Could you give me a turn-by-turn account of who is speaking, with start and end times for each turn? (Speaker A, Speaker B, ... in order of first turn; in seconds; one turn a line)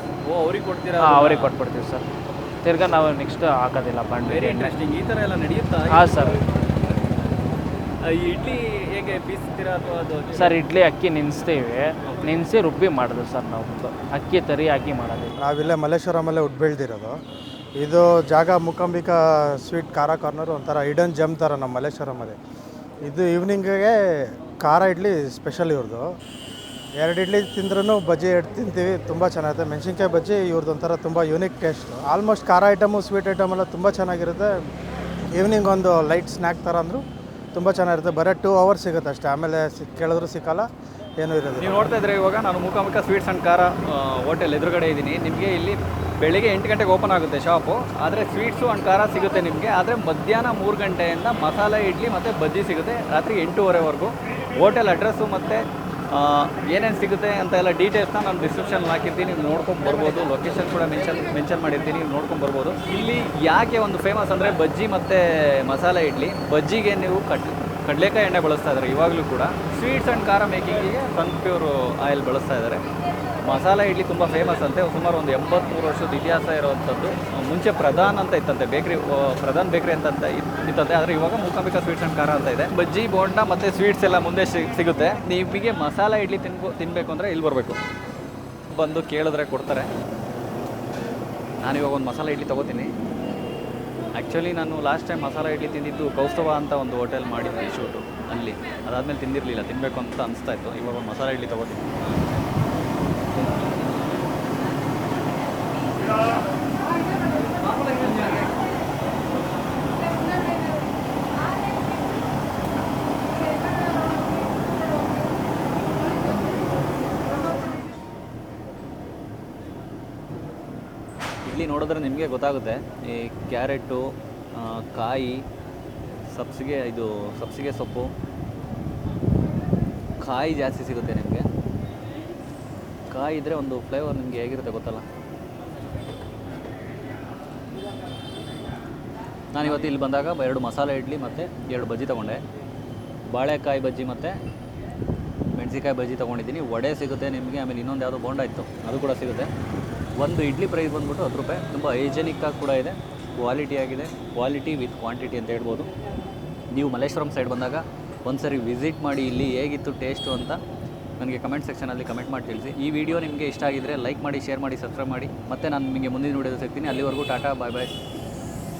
Speaker A: 0.2-1.6
Speaker B: 1.0-2.0
Speaker B: 2.6-4.7
Speaker A: 4.2-6.4
Speaker B: 5.9-6.4
Speaker A: 8.0-10.6
Speaker B: 10.3-15.3
Speaker C: 15.4-17.2
Speaker C: 17.8-22.4
Speaker C: 23.1-23.9
Speaker C: 24.6-26.1
Speaker C: 27.0-34.5
Speaker C: 35.4-37.0
Speaker C: 37.5-40.6
Speaker C: 41.2-41.9
Speaker A: 41.6-72.8
Speaker A: 73.4-87.8
Speaker A: 88.7-89.9
Speaker A: 91.6-92.9
Speaker A: 94.2-101.9
Speaker A: 107.8-108.4
Speaker A: 121.4-125.4
Speaker A: 126.3-128.1
Speaker A: 130.2-131.5
Speaker A: 133.1-135.0
Speaker A: 139.5-142.4
Speaker A: 143.3-144.3
Speaker A: 145.5-149.5
Speaker A: 150.2-155.9
Speaker A: 156.7-160.6
Speaker A: 161.2-167.9